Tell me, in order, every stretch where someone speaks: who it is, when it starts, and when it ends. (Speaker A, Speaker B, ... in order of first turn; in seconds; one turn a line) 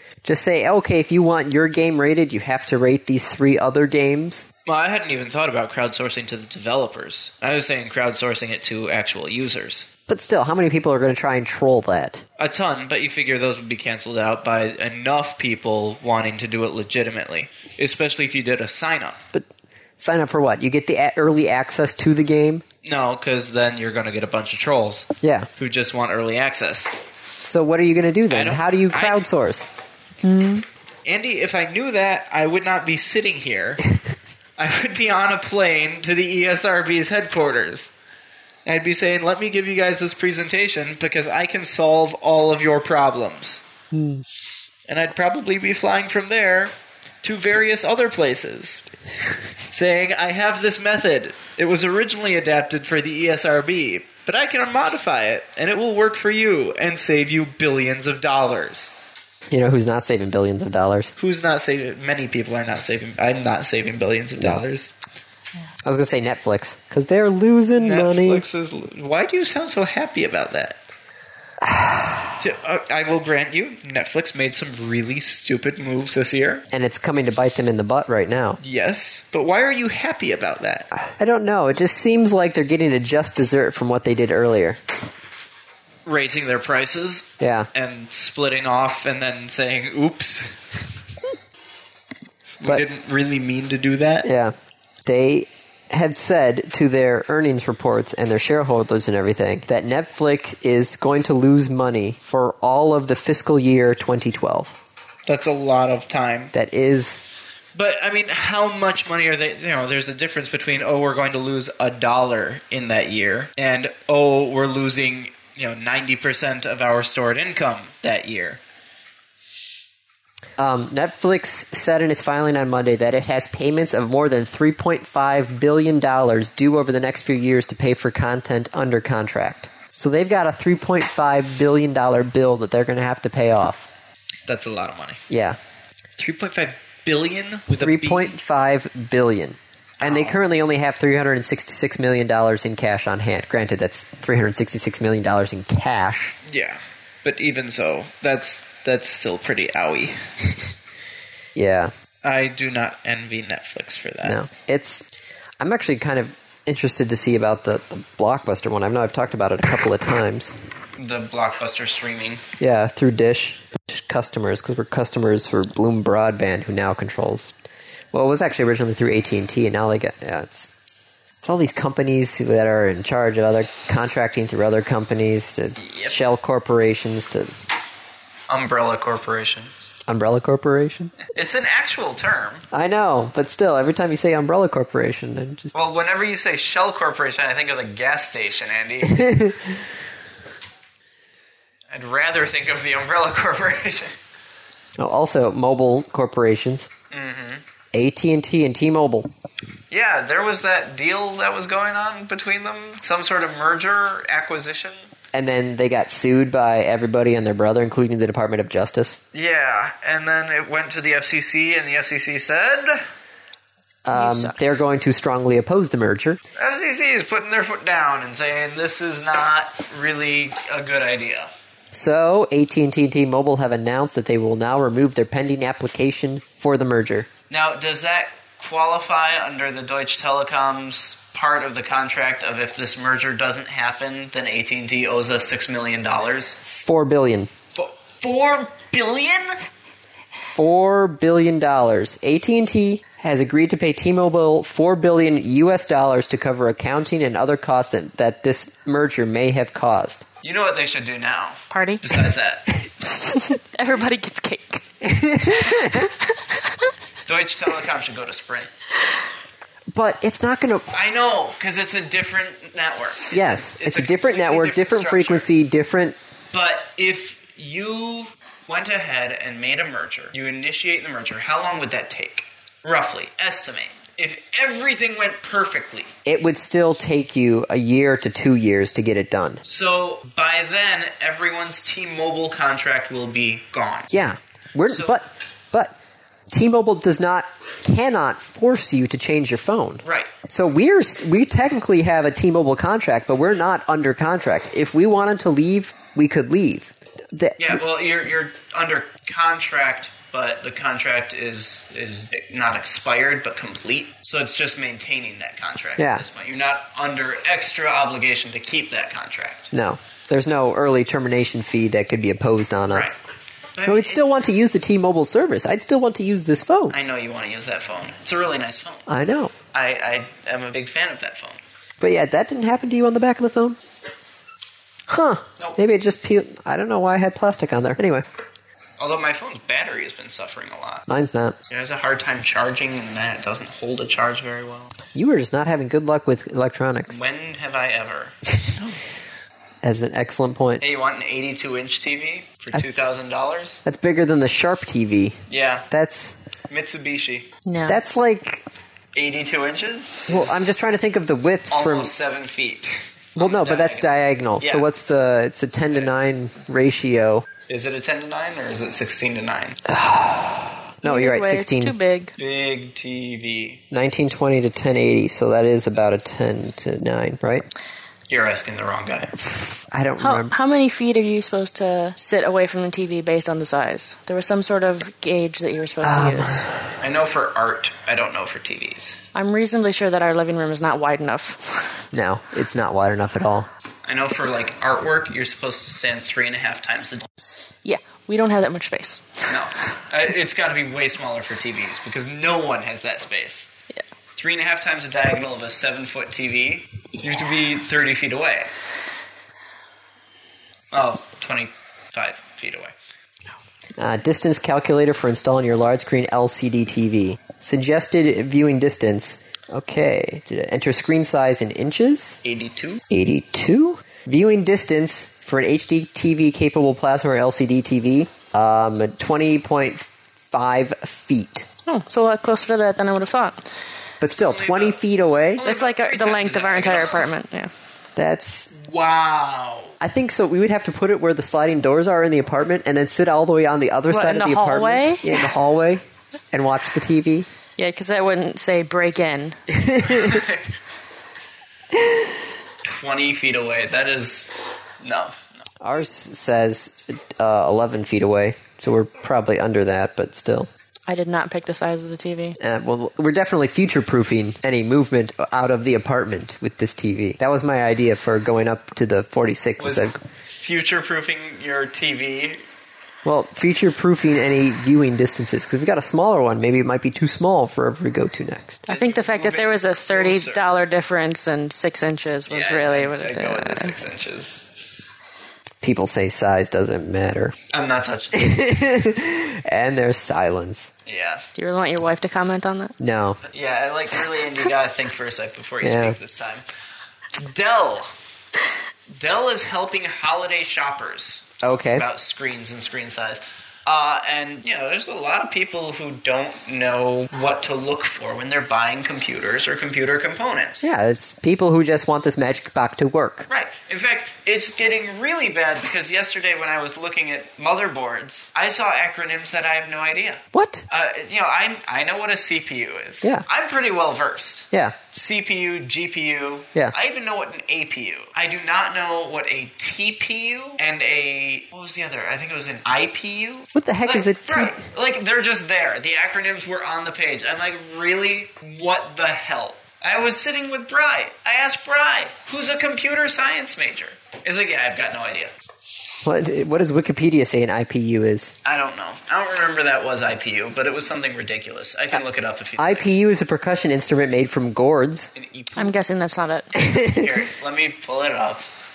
Speaker A: 0.2-4.5
Speaker B: 4.7-9.9
Speaker A: 10.1-12.2
Speaker B: 12.4-19.2
Speaker A: 19.3-22.6
Speaker B: 22.8-26.9
Speaker A: 25.2-25.5
Speaker A: 27.4-29.7
Speaker B: 28.3-29.2
Speaker C: 30.2-30.6
Speaker B: 31.1-33.9
Speaker B: 34.6-37.9
Speaker B: 38.7-43.6
Speaker A: 43.9-44.2
Speaker B: 44.9-48.9
Speaker B: 49.7-58.9
Speaker A: 59.5-61.1
Speaker B: 61.2-64.9
Speaker A: 64.4-64.6
Speaker A: 65.8-68.5
Speaker B: 67.8-70.8
Speaker A: 71.6-72.4
Speaker B: 72.4-76.6
Speaker A: 76.7-78.6
Speaker B: 78.6-80.9
Speaker A: 81.1-84.8
Speaker B: 86.1-90.8
Speaker A: 87.4-87.7
Speaker B: 92.6-94.3
Speaker A: 94.2-94.5
Speaker A: 95.0-104.8
Speaker B: 105.3-106.5
Speaker A: 106.5-107.2
Speaker B: 107.8-118.6
Speaker A: 120.6-133.9
Speaker B: 134.5-135.2
Speaker A: 135.3-135.6
Speaker B: 136.2-138.3
Speaker A: 137.7-146.3
Speaker B: 140.0-140.4
Speaker B: 146.5-150.7
Speaker A: 151.6-151.9
Speaker B: 152.2-154.4
Speaker A: 154.2-160.6
Speaker B: 161.0-162.4
Speaker A: 162.6-167.5
Speaker A: 168.1-170.7
Speaker A: 171.4-177.5
Speaker B: 175.8-176.2
Speaker B: 178.5-179.7
Speaker A: 180.1-181.1
Speaker B: 181.2-182.7
Speaker A: 182.7-185.7
Speaker B: 185.7-189.5
Speaker A: 189.0-189.7
Speaker B: 191.9-194.2
Speaker A: 195.0-196.9
Speaker B: 197.1-197.6
Speaker A: 197.9-199.3
Speaker B: 199.9-205.0
Speaker A: 205.3-209.2
Speaker B: 209.3-213.0
Speaker A: 214.1-216.4
Speaker C: 214.1-214.6
Speaker B: 216.6-221.5
Speaker A: 221.9-227.3
Speaker B: 227.5-236.6
Speaker A: 236.7-237.5
Speaker B: 237.8-239.7
Speaker A: 240.5-250.3
Speaker B: 250.4-252.7
Speaker C: 251.7-252.0
Speaker C: 253.1-254.8
Speaker A: 255.0-256.1
Speaker C: 255.7-256.1
Speaker B: 257.3-258.7
Speaker A: 259.9-260.9
Speaker B: 260.9-265.5
Speaker A: 263.3-266.2
Speaker B: 266.5-276.1
Speaker A: 276.2-279.6
Speaker B: 279.6-284.1
Speaker A: 284.1-285.9
Speaker B: 284.9-285.2
Speaker A: 286.5-297.8
Speaker B: 290.0-290.3
Speaker B: 297.6-309.7
Speaker A: 306.0-306.2
Speaker A: 309.7-313.2
Speaker B: 313.8-314.3
Speaker A: 313.9-317.0
Speaker B: 316.9-319.1
Speaker A: 319.1-319.6
Speaker B: 319.7-321.6
Speaker A: 322.0-323.8
Speaker A: 325.1-328.3
Speaker B: 329.0-331.1
Speaker A: 331.1-331.6
Speaker B: 331.7-334.9
Speaker A: 335.1-337.2
Speaker B: 337.1-339.0
Speaker A: 339.8-340.8
Speaker B: 340.8-343.8
Speaker A: 343.9-345.4
Speaker B: 345.5-345.9
Speaker A: 345.9-346.4
Speaker B: 346.7-347.5
Speaker C: 347.7-348.0
Speaker A: 347.9-348.6
Speaker B: 349.1-350.5
Speaker A: 350.3-352.1
Speaker B: 351.7-354.1
Speaker A: 353.4-357.5
Speaker B: 354.6-354.9
Speaker B: 357.7-359.8
Speaker A: 359.9-361.9
Speaker C: 361.0-362.3
Speaker B: 362.4-363.8
Speaker A: 363.9-367.7
Speaker B: 368.3-369.4
Speaker A: 369.4-370.6
Speaker C: 370.2-376.7
Speaker A: 376.0-376.8
Speaker B: 377.0-379.2
Speaker C: 379.3-381.9
Speaker A: 382.1-383.7
Speaker B: 384.1-387.4
Speaker C: 387.8-389.6
Speaker B: 389.5-393.7
Speaker B: 394.4-398.7
Speaker B: 400.9-402.9
Speaker A: 404.0-412.4
Speaker B: 412.4-413.0
Speaker A: 413.1-421.7
Speaker C: 421.9-423.6
Speaker A: 424.2-425.6
Speaker B: 424.4-425.0
Speaker B: 425.6-427.2
Speaker C: 425.6-427.7
Speaker A: 428.2-428.7
Speaker B: 428.7-429.9
Speaker A: 430.0-437.5
Speaker C: 434.1-435.5
Speaker C: 437.8-439.6
Speaker A: 439.7-440.4
Speaker B: 440.0-440.7
Speaker B: 442.8-445.4
Speaker A: 445.8-450.7
Speaker C: 451.1-452.6
Speaker A: 452.6-460.2
Speaker B: 459.8-462.6
Speaker A: 463.2-468.8
Speaker B: 468.9-470.7
Speaker C: 468.9-474.0
Speaker B: 472.5-474.7
Speaker A: 475.8-477.6
Speaker B: 477.7-478.6
Speaker A: 478.3-480.9
Speaker B: 481.1-481.4
Speaker C: 481.6-482.9
Speaker A: 483.0-483.4
Speaker B: 483.5-486.6
Speaker A: 485.8-486.2
Speaker B: 487.4-488.1
Speaker B: 489.1-500.9
Speaker A: 491.6-492.1
Speaker A: 500.8-503.5
Speaker B: 503.5-535.5
Speaker A: 510.5-510.9
Speaker A: 514.7-515.0
Speaker A: 523.8-524.8
Speaker A: 536.2-538.5
Speaker B: 538.6-543.1
Speaker A: 542.8-545.3
Speaker B: 545.4-546.0
Speaker C: 545.8-546.8
Speaker A: 546.8-547.4
Speaker B: 547.0-548.7